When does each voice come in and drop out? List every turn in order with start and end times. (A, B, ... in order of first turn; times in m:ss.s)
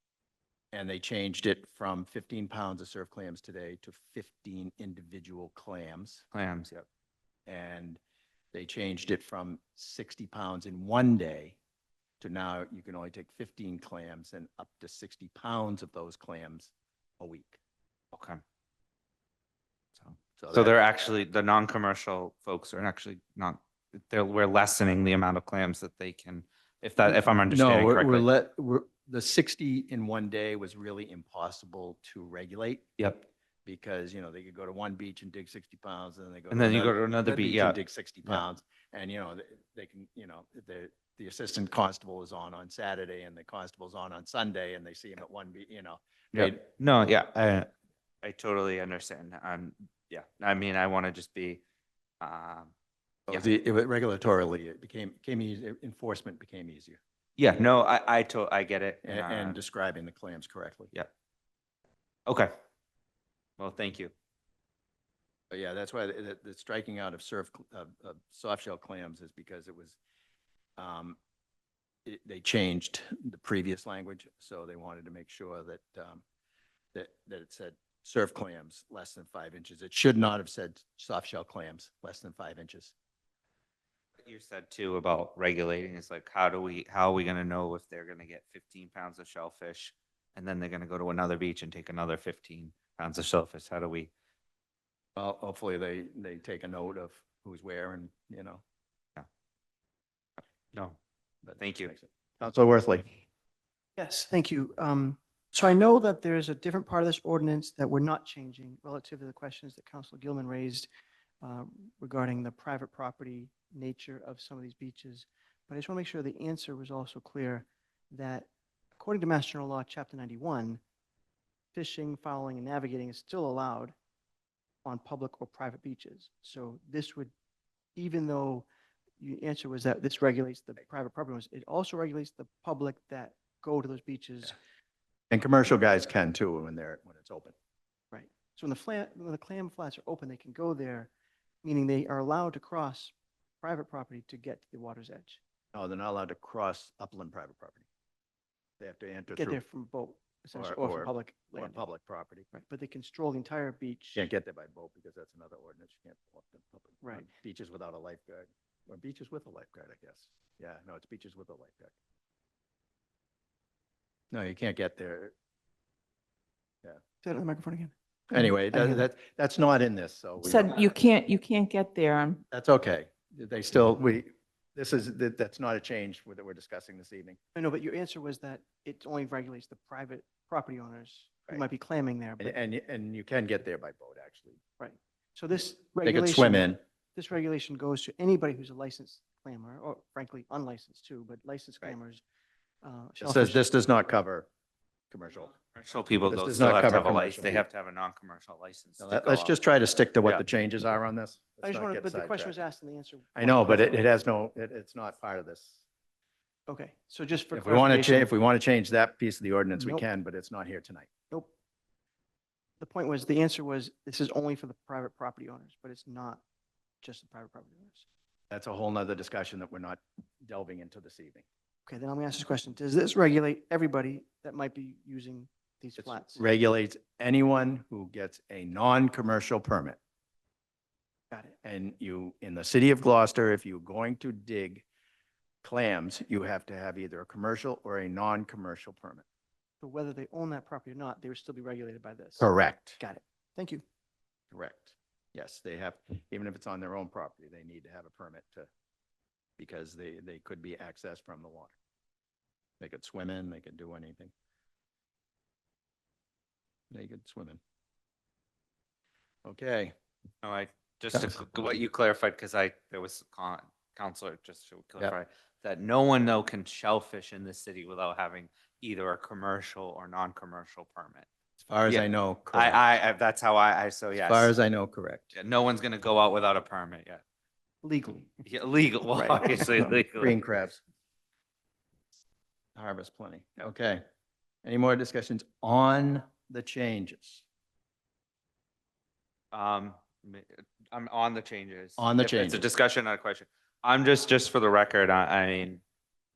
0:00.7-0:06.2 A
0:06.3-0:06.8 B
0:07.5-0:08.0 A
0:08.5-0:11.6 A
0:12.2-0:17.6 A
0:18.1-0:18.4 B
0:20.0-0:28.3 B
0:20.4-0:20.8 A
0:27.1-0:32.9 A
0:33.0-0:33.3 B
0:33.6-0:46.6 A
0:36.5-0:38.4 B
0:46.3-0:47.7 B
0:48.2-0:51.6 B
0:52.2-0:52.7 B
0:53.3-0:57.0 A
0:57.4-0:59.6 B
0:59.0-1:00.9 A
1:03.6-1:04.1 B
1:05.5-1:10.0 A
1:10.8-1:11.2 A
1:12.0-1:16.2 A
1:16.9-1:22.9 A
1:24.2-1:34.1 B
1:35.2-1:38.6 A
1:41.4-1:43.1 A
1:41.6-1:41.9 B
1:44.0-1:50.9 C
1:51.4-2:00.8 C
2:01.7-2:03.9 C
2:04.8-2:07.3 C
2:08.0-2:08.7 C
2:09.2-2:14.6 C
2:15.3-2:17.6 A
2:18.1-2:21.1 C
2:21.6-2:25.4 C
2:25.7-2:27.9 A
2:28.8-2:29.6 A
2:29.3-2:31.8 C
2:30.6-2:32.5 A
2:32.5-2:34.3 C
2:34.2-2:41.9 A
2:37.0-2:37.3 C
2:44.3-2:45.3 A
2:47.2-2:49.0 C
2:48.3-2:50.8 A
2:50.4-2:52.4 D
2:52.5-2:57.4 A
2:57.6-3:02.6 C
3:02.4-3:04.6 A
3:04.8-3:12.2 C
3:06.0-3:06.8 A
3:12.8-3:13.6 C
3:13.2-3:14.5 A
3:15.1-3:15.5 A
3:15.8-3:19.6 B
3:16.2-3:17.6 A
3:19.0-3:22.6 A
3:21.6-3:24.1 C
3:23.4-3:25.8 A
3:26.7-3:28.3 C
3:27.5-3:31.1 A
3:29.8-3:30.0 C
3:32.8-3:36.4 C
3:37.0-3:38.1 C
3:38.5-3:41.4 A
3:41.9-3:46.4 C
3:46.0-3:50.0 A
3:51.3-3:51.6 C
3:51.6-3:54.8 A
3:55.6-3:59.2 A
3:59.8-4:02.5 C
4:02.4-4:03.0 A
4:03.0-4:03.8 C
4:04.5-4:08.7 A
4:09.6-4:11.8 A
4:12.8-4:14.3 A
4:16.9-4:17.6 A
4:19.4-4:19.9 A
4:20.4-4:31.3 B
4:31.6-4:32.8 A
4:31.9-4:34.5 B
4:34.2-4:35.4 A
4:35.4-4:37.2 B
4:37.8-4:38.4 C
4:38.5-4:40.4 B
4:39.1-4:39.9 C
4:39.8-4:40.8 A
4:42.8-4:44.0 A
4:44.6-4:47.4 A
4:49.5-4:55.8 B
4:52.0-4:52.6 A